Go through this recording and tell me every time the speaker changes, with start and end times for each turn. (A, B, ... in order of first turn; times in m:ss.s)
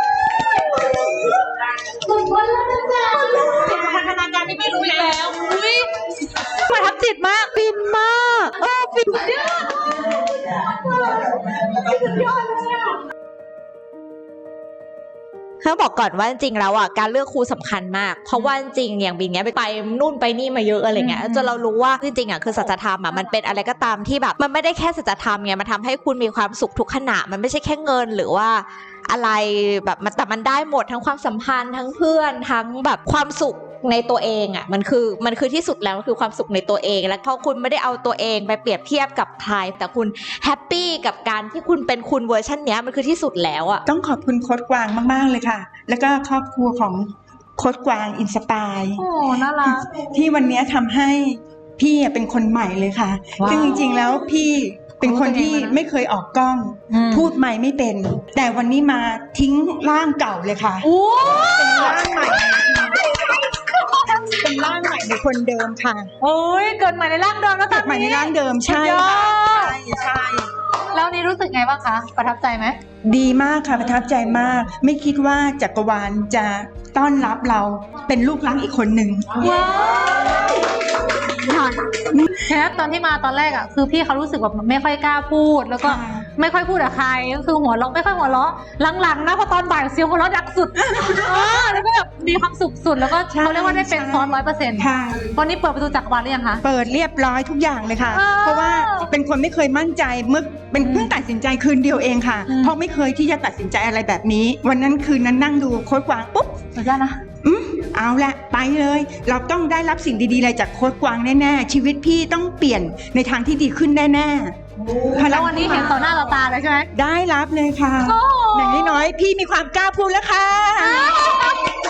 0:02.1-0:03.4 A
0:03.5-0:04.6 B
0:04.2-0:05.9 A
0:06.6-0:07.6 A
0:08.3-0:09.8 A
0:11.8-0:12.7 A
0:15.6-0:43.8 B
0:21.0-0:21.5 A
0:43.8-0:49.0 C
0:49.0-0:49.9 A
0:49.6-1:03.1 C
0:53.4-0:54.2 A
0:55.0-0:55.8 A
0:56.9-0:57.3 A
1:00.8-1:02.4 A
1:04.0-1:06.1 C
1:06.2-1:09.8 A
1:07.7-1:10.5 C
1:10.9-1:12.8 A
1:13.0-1:19.5 C
1:19.4-1:20.5 A
1:21.5-1:21.8 A
1:22.4-1:36.6 A
1:25.8-1:26.3 C
1:30.8-1:31.6 C
1:33.0-1:35.2 C
1:36.6-1:46.6 C
1:38.1-1:39.1 A
1:40.8-1:41.1 A
1:42.5-1:42.7 A
1:46.8-1:47.2 A
1:47.4-1:56.1 C
1:55.1-1:56.9 A
1:56.9-2:01.2 C
1:58.0-1:59.0 A
2:00.8-2:01.5 A